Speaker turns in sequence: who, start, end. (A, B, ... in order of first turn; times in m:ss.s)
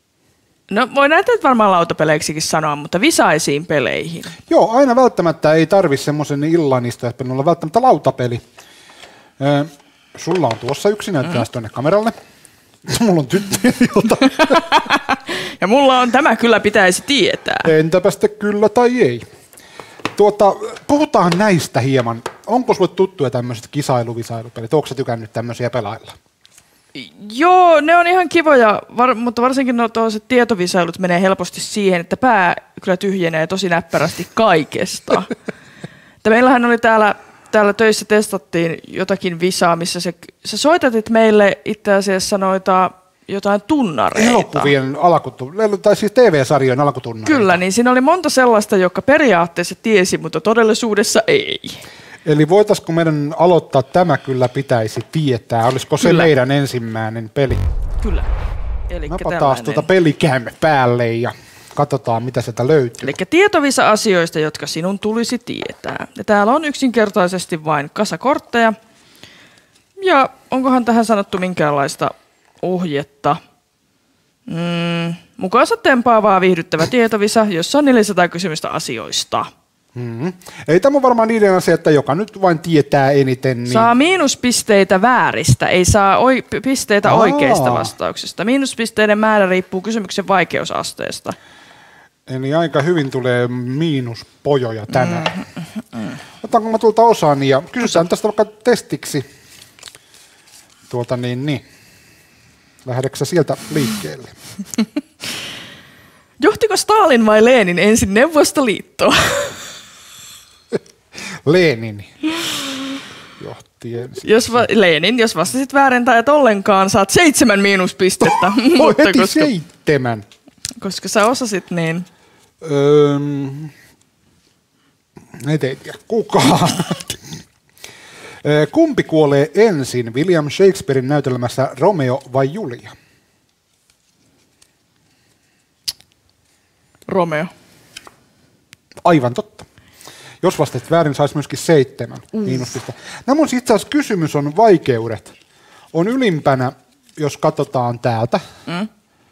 0:00.7-0:04.3 A
0:04.5-0:08.4 B
0:09.4-0:12.1 B
0:12.9-0:14.6 B
0:14.3-0:17.7 A
0:17.6-0:19.2 B
0:20.2-0:26.2 B
0:27.0-0:35.3 A
0:36.2-0:44.7 A
0:44.1-0:47.6 B
0:47.2-0:51.8 A
0:52.2-0:57.6 B
0:56.0-0:56.3 A
0:58.0-0:58.3 A
0:58.9-0:59.9 A
0:59.1-1:03.2 B
1:03.0-1:08.8 A
1:10.0-1:13.4 A
1:14.5-1:19.5 A
1:20.0-1:23.9 B
1:23.7-1:31.4 A
1:27.0-1:27.9 B
1:32.3-1:35.3 B
1:34.9-1:36.2 A
1:36.4-1:39.2 B
1:40.9-1:41.6 B
1:42.8-1:44.3 B
1:46.4-1:49.7 A
1:51.5-1:52.2 B
1:53.4-1:54.7 B
1:54.2-1:59.5 A
1:58.2-2:00.2 B
2:00.8-2:02.1 A
2:02.6-2:03.7 B
2:05.4-2:07.4 B
2:08.4-2:12.9 B
2:17.1-2:17.5 A
2:19.0-2:19.7 B
2:20.4-2:25.4 B
2:25.9-2:28.4 B